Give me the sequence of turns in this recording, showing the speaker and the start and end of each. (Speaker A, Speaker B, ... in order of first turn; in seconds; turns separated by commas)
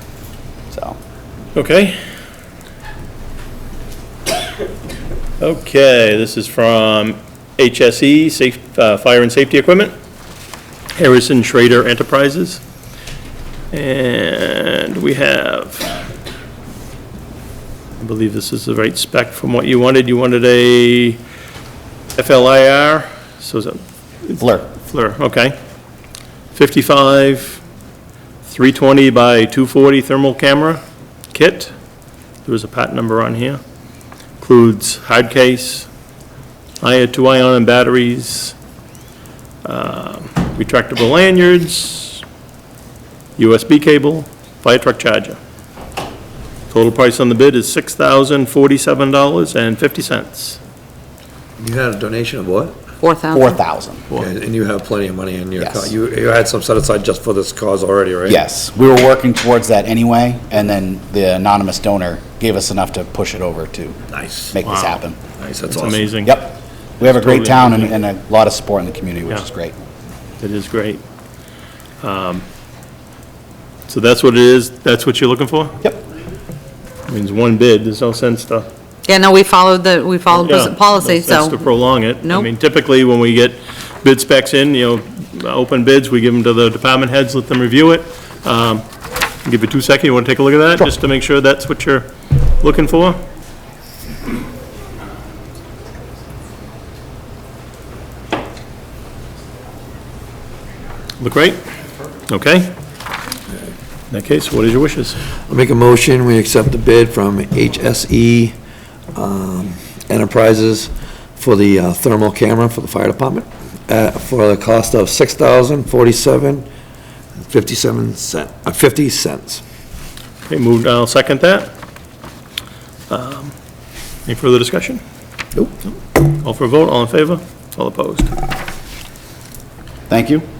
Speaker A: 0.7-1.0, Speaker B: 1.6-2.0, Speaker B: 5.4-9.9, Speaker B: 11.0-12.6, Speaker B: 13.7-16.0, Speaker B: 18.0-21.2, Speaker B: 22.2-25.6, Speaker A: 24.4-24.7, Speaker B: 26.5-27.6, Speaker B: 28.4-31.7, Speaker B: 32.5-33.6, Speaker B: 34.4-35.9, Speaker B: 36.8-38.5, Speaker B: 39.6-42.2, Speaker B: 43.4-45.4, Speaker B: 46.7-50.6, Speaker C: 51.6-52.8, Speaker D: 53.0-53.6, Speaker A: 53.3-54.0, Speaker C: 54.1-58.4, Speaker A: 55.6-55.9, Speaker A: 58.3-64.0, Speaker C: 64.1-64.5, Speaker A: 64.5-65.2, Speaker B: 64.7-65.0, Speaker C: 65.4-66.1, Speaker B: 65.7-66.4, Speaker A: 66.2-69.8, Speaker B: 67.0-68.0, Speaker B: 70.4-71.0, Speaker B: 72.0-72.5, Speaker B: 73.9-75.8, Speaker B: 77.1-78.7, Speaker D: 79.1-81.7, Speaker B: 80.3-88.8, Speaker D: 82.2-82.5, Speaker B: 89.5-92.1, Speaker B: 92.6-93.2, Speaker B: 101.2-101.6, Speaker B: 102.3-102.8, Speaker B: 104.1-105.2, Speaker C: 105.5-108.5, Speaker C: 109.1-116.7, Speaker C: 117.5-119.6, Speaker B: 120.5-121.7, Speaker B: 123.1-123.5, Speaker B: 124.3-125.0, Speaker B: 126.1-128.3, Speaker A: 130.1-130.5